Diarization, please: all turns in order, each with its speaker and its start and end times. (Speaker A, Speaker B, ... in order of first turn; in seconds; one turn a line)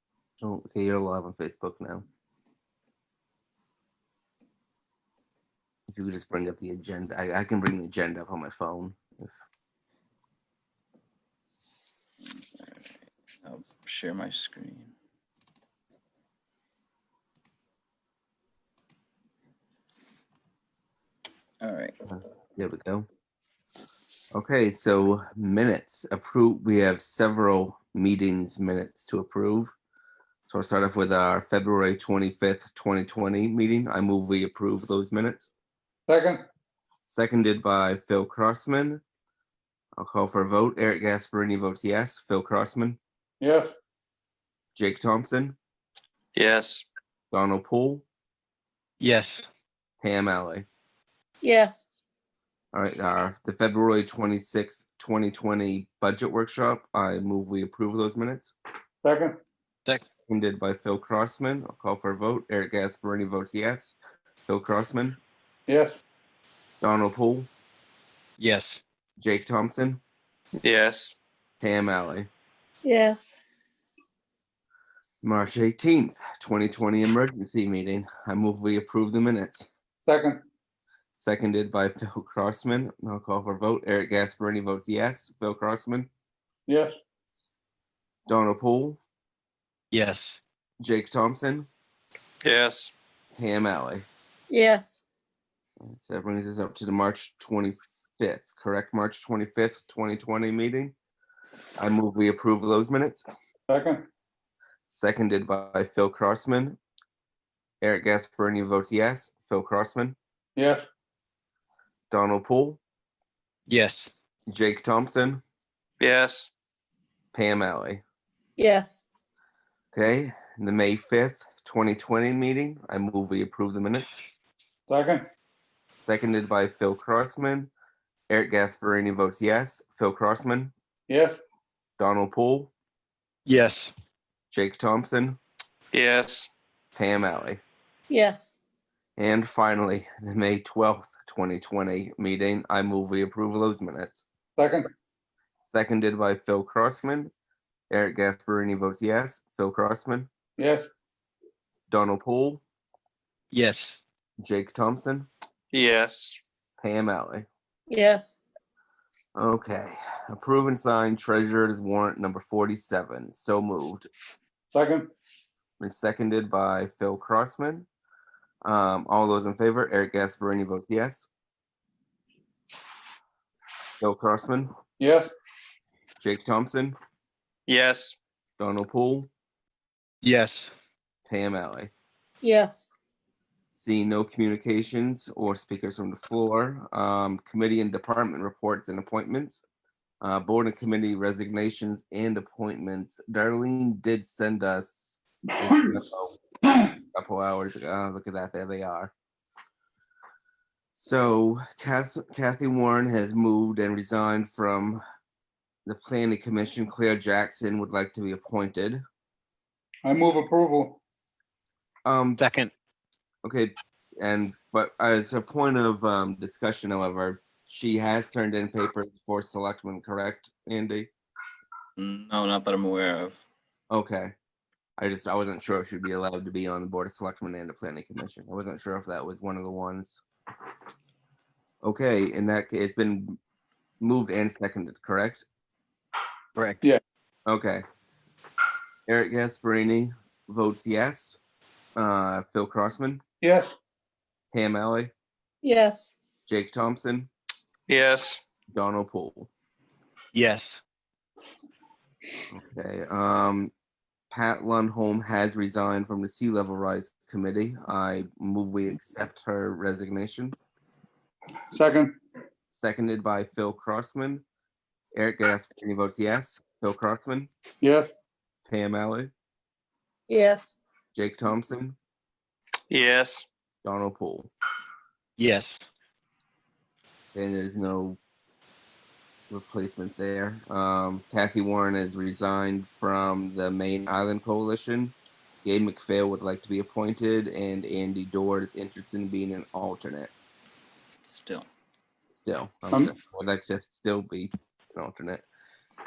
Speaker A: 0.4-2.0
Speaker A: 5.9-9.3
Speaker B: 12.2-12.8
Speaker B: 13.4-14.9
Speaker B: 21.6-21.9
Speaker A: 22.6-23.1
Speaker A: 24.3-29.7
Speaker A: 30.5-35.5
Speaker C: 36.1-36.4
Speaker A: 37.1-39.0
Speaker A: 40.0-43.0
Speaker C: 43.4-43.7
Speaker A: 44.7-45.6
Speaker D: 46.3-46.9
Speaker A: 47.3-48.0
Speaker E: 49.0-49.3
Speaker A: 50.0-50.6
Speaker F: 51.4-51.9
Speaker A: 52.7-58.5
Speaker C: 59.0-59.4
Speaker A: 60.2-64.0
Speaker A: 64.5-65.2
Speaker C: 65.7-66.0
Speaker A: 66.8-67.5
Speaker E: 68.4-68.6
Speaker A: 69.2-70.0
Speaker D: 70.6-71.2
Speaker A: 71.6-72.3
Speaker F: 72.8-73.4
Speaker A: 75.2-79.7
Speaker C: 80.1-80.4
Speaker A: 81.2-86.1
Speaker C: 86.7-87.0
Speaker A: 88.3-89.0
Speaker E: 89.9-90.2
Speaker A: 90.8-91.7
Speaker D: 92.4-92.9
Speaker A: 93.3-94.1
Speaker F: 94.5-95.0
Speaker A: 95.8-100.9
Speaker A: 101.8-103.2
Speaker C: 103.7-104.1
Speaker A: 104.9-106.8
Speaker A: 107.8-110.2
Speaker C: 110.5-110.8
Speaker A: 112.1-112.8
Speaker E: 113.7-113.9
Speaker A: 114.5-115.4
Speaker D: 116.0-116.5
Speaker A: 117.3-118.0
Speaker F: 118.6-119.0
Speaker A: 119.9-124.2
Speaker C: 124.9-125.3
Speaker A: 126.0-127.7
Speaker A: 128.3-130.7
Speaker C: 131.1-131.4
Speaker A: 132.0-132.7
Speaker E: 133.4-133.8
Speaker A: 134.5-135.4
Speaker D: 135.9-136.5
Speaker A: 136.9-137.6
Speaker F: 138.1-138.5
Speaker A: 139.2-144.2
Speaker C: 144.6-144.9
Speaker A: 145.7-147.3
Speaker A: 147.9-150.3
Speaker C: 150.6-150.9
Speaker A: 151.9-152.6
Speaker E: 153.5-153.8
Speaker A: 154.4-155.3
Speaker D: 155.7-156.4
Speaker A: 156.8-157.5
Speaker F: 157.9-158.4
Speaker A: 159.3-164.1
Speaker C: 164.7-165.1
Speaker A: 165.8-167.9
Speaker A: 168.6-171.3
Speaker A: 174.0-174.7
Speaker C: 175.0-175.3
Speaker A: 176.2-177.0
Speaker D: 177.7-178.2
Speaker A: 178.6-179.3
Speaker E: 180.2-180.5
Speaker A: 181.3-181.9
Speaker F: 182.4-182.9
Speaker A: 183.7-189.6
Speaker A: 190.2-196.4
Speaker A: 197.0-199.1
Speaker A: 200.9-205.0
Speaker A: 205.8-209.0
Speaker C: 210.0-211.0
Speaker A: 212.0-212.4
Speaker E: 212.4-212.7
Speaker A: 213.4-221.1
Speaker B: 221.9-223.5
Speaker A: 223.9-224.3
Speaker A: 225.0-230.2
Speaker A: 231.8-233.4
Speaker A: 234.0-235.4
Speaker E: 236.6-236.8
Speaker A: 237.4-237.8
Speaker A: 239.1-241.4
Speaker A: 241.9-243.2
Speaker C: 243.4-243.8
Speaker A: 244.5-245.1
Speaker F: 245.6-246.1
Speaker A: 246.5-247.3
Speaker D: 247.9-248.4
Speaker A: 248.7-249.5
Speaker E: 250.3-250.6
Speaker A: 252.5-253.7
Speaker A: 254.3-260.6
Speaker C: 261.7-262.2
Speaker A: 262.7-264.4
Speaker A: 265.1-267.5
Speaker C: 267.8-268.1
Speaker A: 268.7-269.3
Speaker F: 270.3-270.7
Speaker A: 271.1-272.0
Speaker D: 272.9-273.4
Speaker A: 273.8-274.5
Speaker E: 275.4-275.6
Speaker A: 277.3-278.2
Speaker A: 279.5-290.3
Speaker B: 291.3-291.7
Speaker A: 292.3-295.4